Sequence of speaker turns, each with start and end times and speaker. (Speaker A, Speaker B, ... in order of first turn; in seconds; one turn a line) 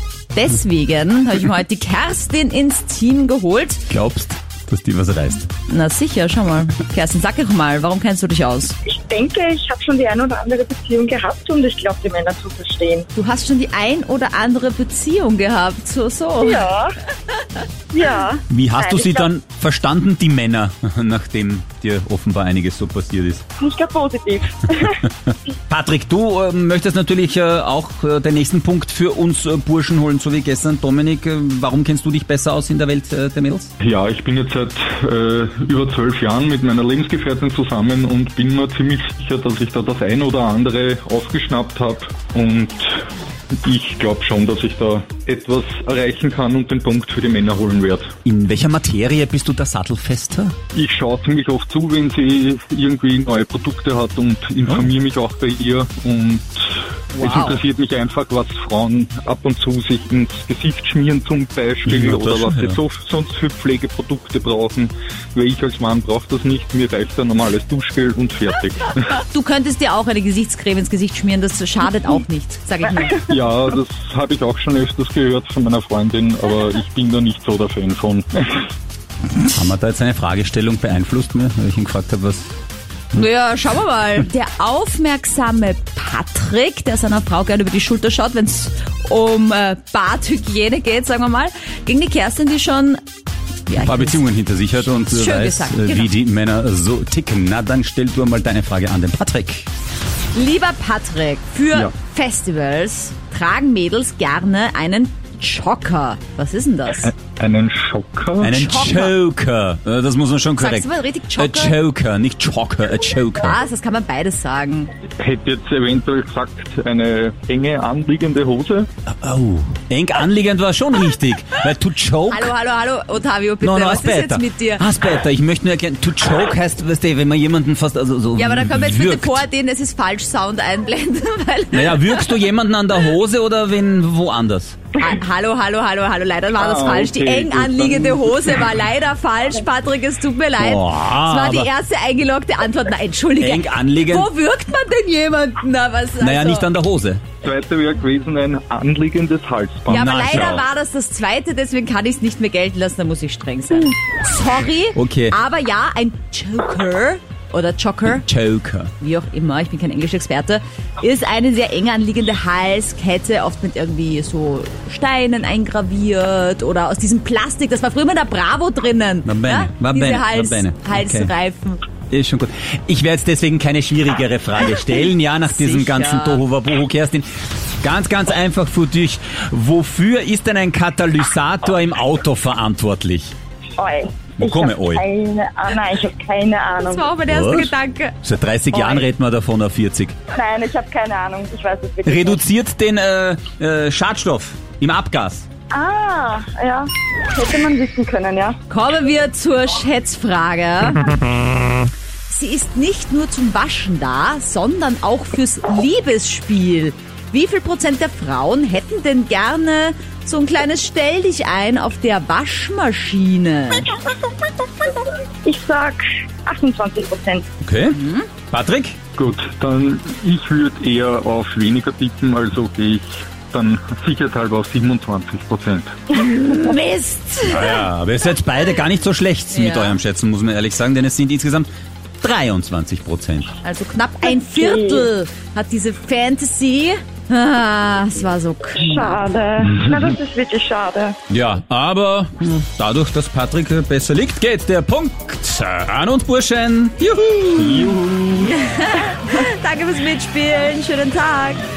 Speaker A: 0.3-3.8
Speaker B: 3.9-5.5
Speaker A: 5.7-8.8
Speaker C: 8.9-13.1
Speaker A: 13.2-16.6
Speaker C: 16.4-16.9
Speaker C: 17.9-19.3
Speaker B: 18.5-23.4
Speaker C: 23.6-25.1
Speaker B: 25.7-33.7
Speaker D: 33.8-43.1
Speaker D: 43.6-48.1
Speaker B: 48.2-50.5
Speaker D: 50.7-69.1
Speaker A: 57.1-57.6
Speaker B: 61.9-62.8
Speaker A: 69.2-73.2
Speaker D: 73.2-78.7
Speaker B: 79.5-82.5
Speaker A: 83.1-93.0
Speaker A: 93.7-94.2
Speaker B: 93.7-99.7
Speaker A: 94.9-96.2
Speaker A: 100.3-107.1
Speaker D: 107.0-108.7
Speaker B: 108.4-113.6
Speaker A: 108.5-109.1
Speaker A: 110.6-111.8
Speaker A: 113.4-114.9
Speaker D: 115.2-118.9
Speaker B: 119.2-122.5
Speaker A: 122.3-124.9
Speaker B: 123.6-129.4
Speaker A: 128.4-132.4
Speaker B: 131.7-134.8
Speaker A: 135.0-146.7
Speaker D: 136.6-138.7
Speaker B: 140.6-141.7
Speaker B: 143.4-144.3
Speaker B: 146.2-147.2
Speaker D: 147.4-150.5
Speaker B: 149.9-150.7
Speaker A: 149.9-158.3
Speaker B: 155.0-155.3
Speaker B: 158.1-158.9
Speaker A: 159.0-171.8
Speaker B: 169.2-171.3
Speaker B: 172.1-177.3
Speaker A: 175.0-176.4
Speaker B: 177.8-183.3
Speaker C: 183.8-187.1
Speaker B: 184.4-185.0
Speaker A: 186.8-188.2
Speaker B: 187.3-190.2
Speaker C: 188.7-189.1
Speaker C: 190.3-192.4
Speaker B: 192.1-195.5
Speaker C: 195.7-198.6
Speaker A: 198.7-201.1
Speaker A: 202.3-213.9
Speaker C: 215.4-217.4
Speaker B: 217.6-219.0
Speaker A: 217.9-218.3
Speaker D: 219.2-225.9
Speaker A: 226.1-227.9
Speaker B: 227.4-231.7
Speaker A: 229.5-230.0
Speaker B: 232.2-233.6
Speaker A: 233.6-239.1
Speaker C: 234.2-235.1
Speaker C: 238.8-241.2
Speaker B: 241.3-248.5
Speaker D: 247.5-248.1
Speaker A: 248.4-251.6